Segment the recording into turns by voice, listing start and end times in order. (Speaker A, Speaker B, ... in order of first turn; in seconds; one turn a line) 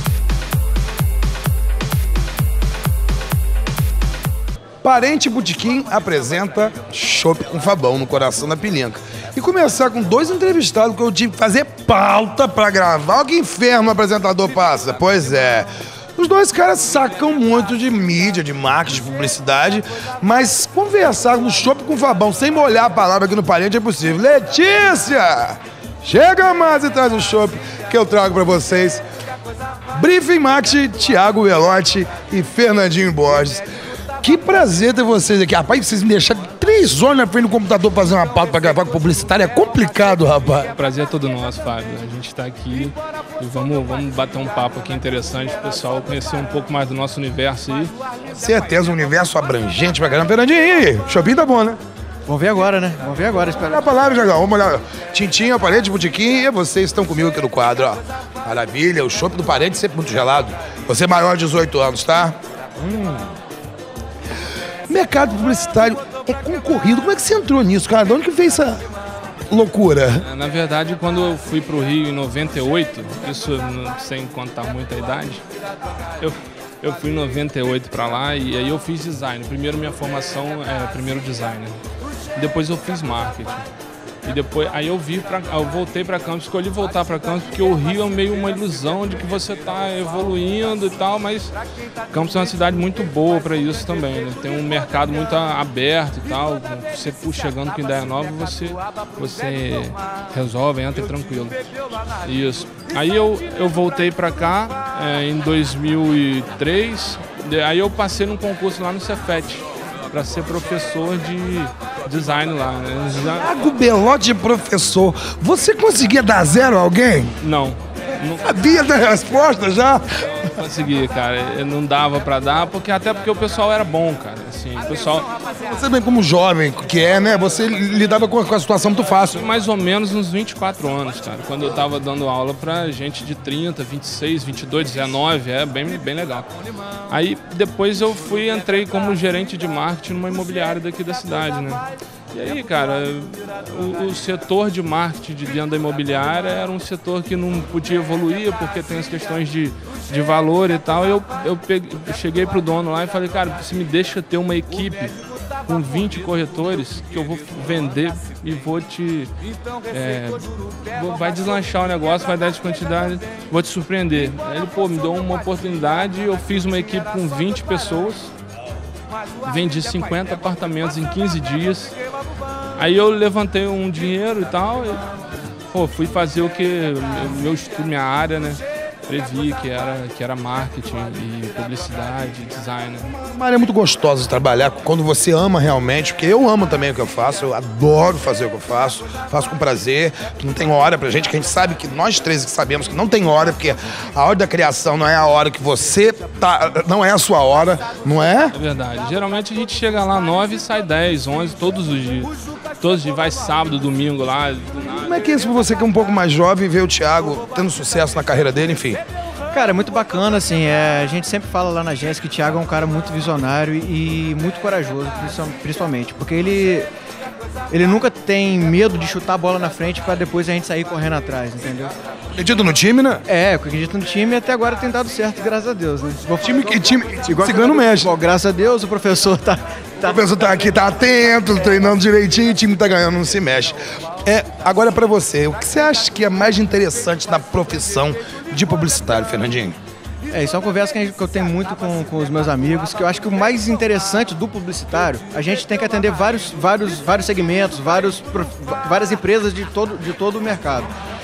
Speaker A: 4.8-29.0
Speaker A: 29.9-33.6
Speaker A: 34.2-40.7
Speaker B: 40.7-47.9
Speaker A: 48.3-51.8
Speaker C: 52.3-53.9
Speaker A: 53.7-63.3
Speaker A: 64.9-68.8
Speaker A: 69.5-70.2
Speaker B: 70.2-75.4
Speaker B: 76.2-81.8
Speaker B: 82.3-83.6
Speaker B: 84.2-91.5
Speaker B: 92.1-101.6
Speaker B: 102.2-113.5
Speaker A: 113.4-117.4
Speaker B: 117.4-118.4
Speaker A: 118.4-120.0
Speaker B: 120.3-125.3
Speaker A: 125.6-129.4
Speaker B: 129.3-136.5
Speaker B: 137.1-141.8
Speaker B: 142.3-155.2
Speaker B: 155.7-159.3
Speaker B: 159.9-168.3
Speaker B: 169.4-171.9
Speaker B: 172.8-175.0
Speaker B: 175.7-183.1
Speaker A: 183.1-198.5
Speaker B: 198.5-205.3
Speaker A: 204.9-209.0
Speaker C: 209.5-216.9
Speaker C: 217.7-221.9
Speaker A: 222.3-223.2
Speaker C: 223.3-230.2
Speaker A: 226.4-228.1
Speaker A: 230.0-239.8
Speaker C: 240.3-250.9